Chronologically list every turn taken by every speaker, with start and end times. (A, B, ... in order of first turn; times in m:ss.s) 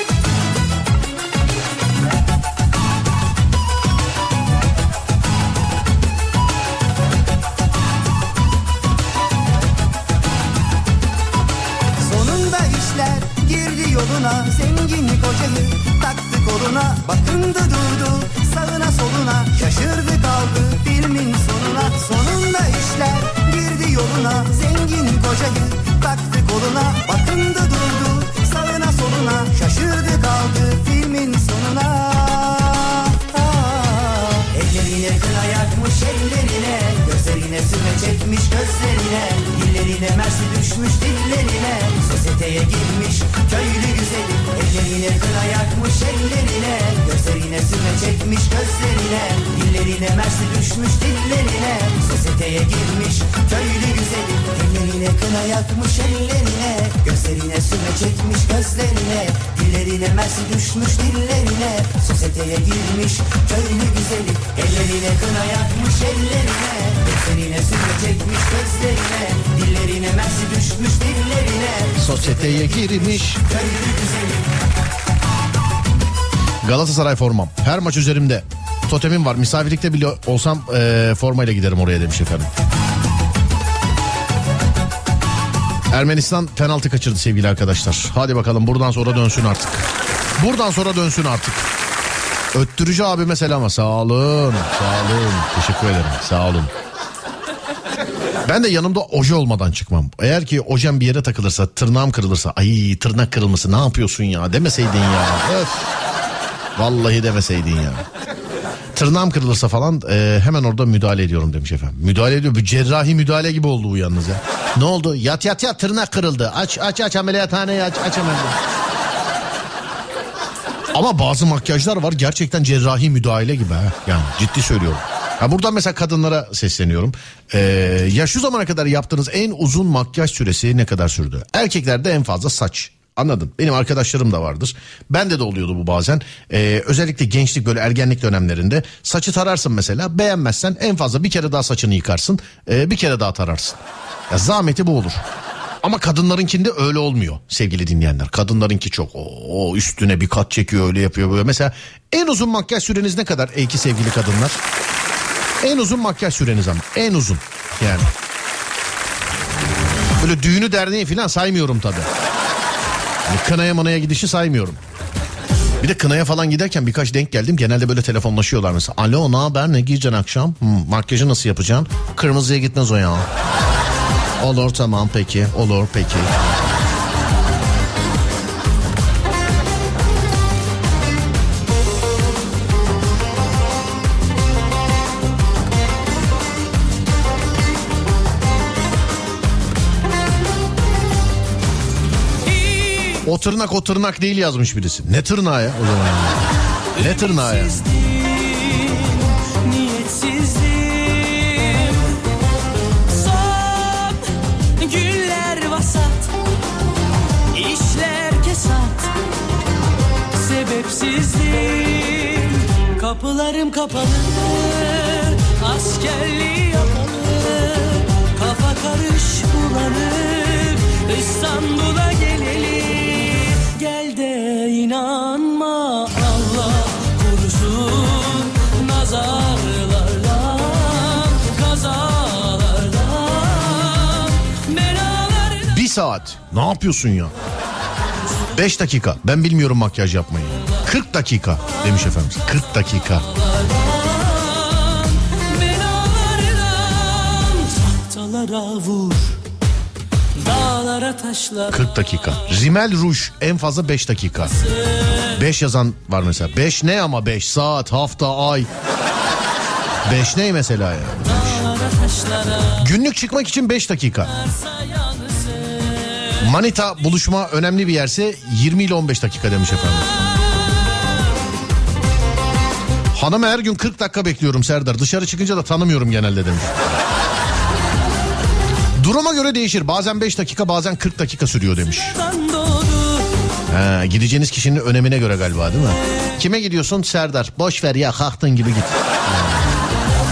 0:12.0-1:14.4 A
1:12.0-1:13.4 B
1:16.6-1:22.5 B
1:25.9-1:31.7 B
1:32.5-1:36.7 B
1:38.4-1:45.9 B
1:46.8-1:48.1 B
1:48.9-1:58.6 B
2:00.9-2:25.2 B
2:25.8-2:34.6 B
2:35.6-2:38.1 B
2:40.2-2:42.1 B
2:43.3-2:44.8 B
2:45.8-2:53.3 B
2:54.4-2:56.3 B
3:12.4-3:13.2 C
3:13.2-3:16.4 B
3:17.0-3:22.1 C
3:17.0-3:17.8 B
3:23.1-3:24.2 C
3:24.8-3:26.3 C
3:27.5-3:29.1 C
3:30.4-3:55.7 C
3:55.7-3:57.3 B
3:58.5-4:03.3 B
4:03.7-4:09.3 C
4:10.4-4:11.8 C
4:11.7-4:14.6 B
4:15.3-4:18.7 B
4:20.0-4:21.7 B
4:21.4-4:22.8 C
4:22.8-4:24.3 B
4:24.4-4:26.4 C
4:26.4-4:30.1 B
4:33.1-4:37.0 B
4:39.0-4:42.2 B
4:42.2-4:43.2 C
4:43.7-4:49.6 B